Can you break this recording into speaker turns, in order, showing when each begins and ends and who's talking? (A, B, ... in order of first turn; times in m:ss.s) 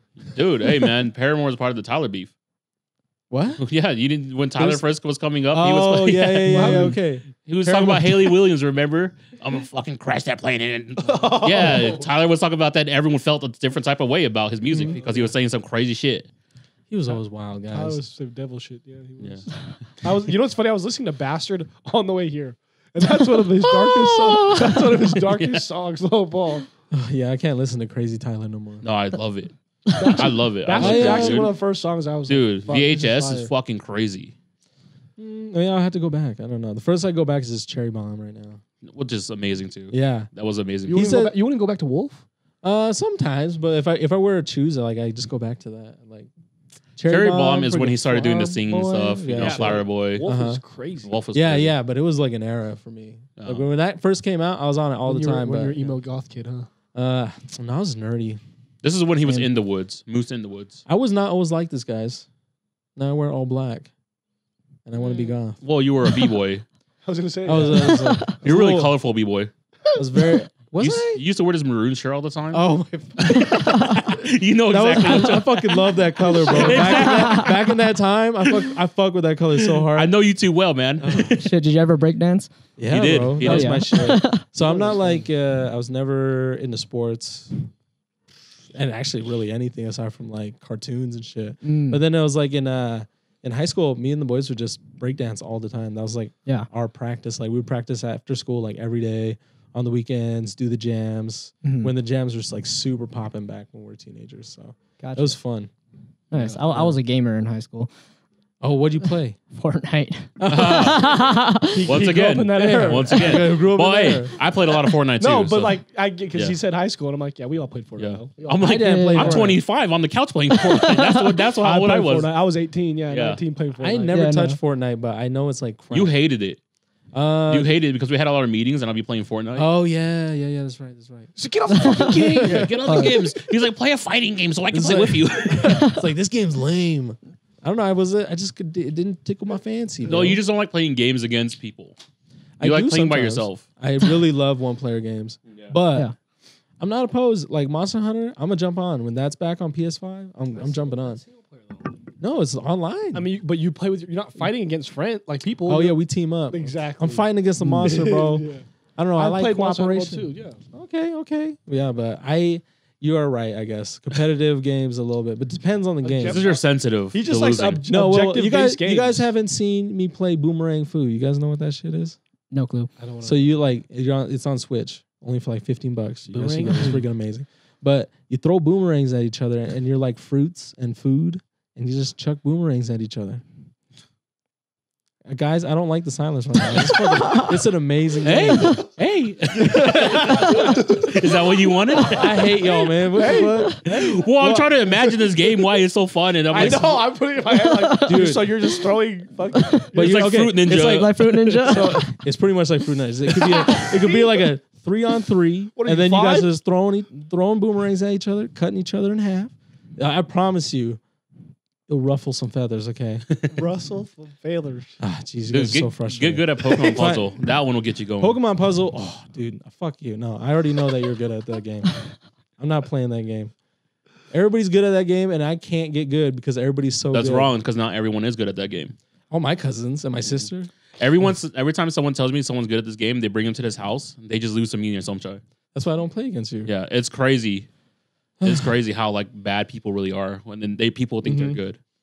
0:00.4-0:02.3 A
0:03.3-0:03.6 B
0:03.6-0:16.3 A
0:04.6-0:04.8 C
0:05.5-0:08.4 B
0:06.5-0:07.0 C
0:11.0-0:12.1 C
0:14.7-0:15.3 C
0:16.9-0:18.1 B
0:17.6-0:26.7 C
0:19.2-0:19.6 A
0:23.9-0:25.6 A
0:24.3-0:24.6 D
0:26.9-0:28.9 B
0:28.8-0:31.5 A
0:30.0-0:33.5 C
0:30.7-0:31.5 B
0:32.3-0:34.3 A
0:35.2-0:38.6 B
0:38.8-0:41.1 A
0:39.9-0:40.3 B
0:40.9-0:42.2 C
0:40.9-0:41.3 B
0:42.6-0:46.3 B
0:47.0-0:50.6 B
0:47.1-0:50.3 A
0:49.4-0:51.2 C
0:51.0-0:51.7 A
0:51.3-0:56.0 B
0:53.4-0:53.6 A
0:55.1-0:56.7 C
0:57.0-0:58.4 B
0:58.8-1:00.8 A
1:00.9-1:02.3 B
1:03.0-1:03.9 B
1:04.9-1:05.6 B
1:05.6-1:06.6 A
1:07.0-1:08.2 C
1:07.4-1:08.9 B
1:07.7-1:08.4 D
1:08.4-1:09.5 A
1:10.0-1:11.2 B
1:10.8-1:15.9 A
1:12.5-1:13.5 B
1:13.4-1:14.0 D
1:14.7-1:20.1 B
1:16.5-1:17.6 A
1:16.7-1:17.6 D
1:19.9-1:21.1 A
1:21.0-1:21.5 B
1:21.1-1:22.5 D
1:22.8-1:27.6 B
1:22.9-1:23.9 A
1:23.4-1:24.4 D
1:24.6-1:25.2 C
1:28.7-1:45.7 B
1:31.6-1:32.0 D
1:41.6-1:41.9 D
1:45.0-1:45.4 D
1:46.3-1:47.9 D
1:46.3-1:47.0 B
1:48.6-1:49.4 B
1:49.5-1:51.9 D
1:50.4-1:50.9 B
1:50.5-1:51.0 A
1:51.7-1:53.4 C
1:51.8-1:55.8 A
1:52.6-1:54.4 B
1:55.2-1:59.5 C
1:58.0-2:02.3 A
1:58.6-1:59.6 B
1:58.7-1:59.4 D
2:00.6-2:01.4 D
2:01.6-2:04.2 C
2:03.1-2:03.4 A
2:03.8-2:06.1 B
2:04.1-2:04.6 D
2:05.9-2:06.6 A
2:07.1-2:07.7 B
2:07.5-2:09.7 A
2:09.6-2:11.3 B
2:11.4-2:13.0 C
2:11.7-2:13.2 D
2:11.8-2:15.9 A
2:12.9-2:13.2 B
2:14.7-2:20.4 B
2:15.6-2:16.0 D
2:20.0-2:22.0 A
2:22.6-2:26.1 B
2:22.6-2:23.6 A
2:26.8-2:31.2 B
2:30.6-2:32.0 C
2:32.2-2:33.3 B
2:33.1-2:36.0 C
2:35.7-2:46.4 B
2:36.5-2:38.6 C
2:39.2-2:40.6 C
2:46.0-2:49.3 C
2:46.2-2:47.8 A
2:47.9-2:52.2 B
2:52.5-2:52.9 D
2:53.0-2:53.4 C
2:53.2-3:03.4 B
2:56.3-2:57.1 C
3:05.3-3:08.8 B
3:08.2-3:12.4 A
3:09.5-3:11.2 C
3:10.4-3:10.7 D
3:12.1-3:13.8 C
3:12.1-3:14.7 B
3:13.9-3:17.0 A
3:16.5-3:20.5 C
3:16.6-3:16.9 B
3:17.5-3:18.3 D
3:18.1-3:18.5 B
3:19.6-3:19.9 D
3:19.9-3:20.6 B
3:19.9-3:21.5 A
3:20.6-3:22.1 D
3:21.6-3:31.0 B
3:21.7-3:22.0 C
3:23.4-3:24.4 C
3:25.8-3:26.5 C
3:31.9-3:33.2 B
3:33.5-3:35.0 C
3:35.0-3:37.3 B
3:35.5-3:38.4 A
3:38.2-3:43.5 B
3:44.3-3:47.5 B
3:47.1-3:49.0 A
3:49.3-3:50.7 B
3:51.0-3:55.4 A
3:55.7-3:56.7 B
3:56.6-3:57.7 A
3:58.4-3:58.8 B
3:58.4-4:01.8 A
4:01.2-4:01.6 B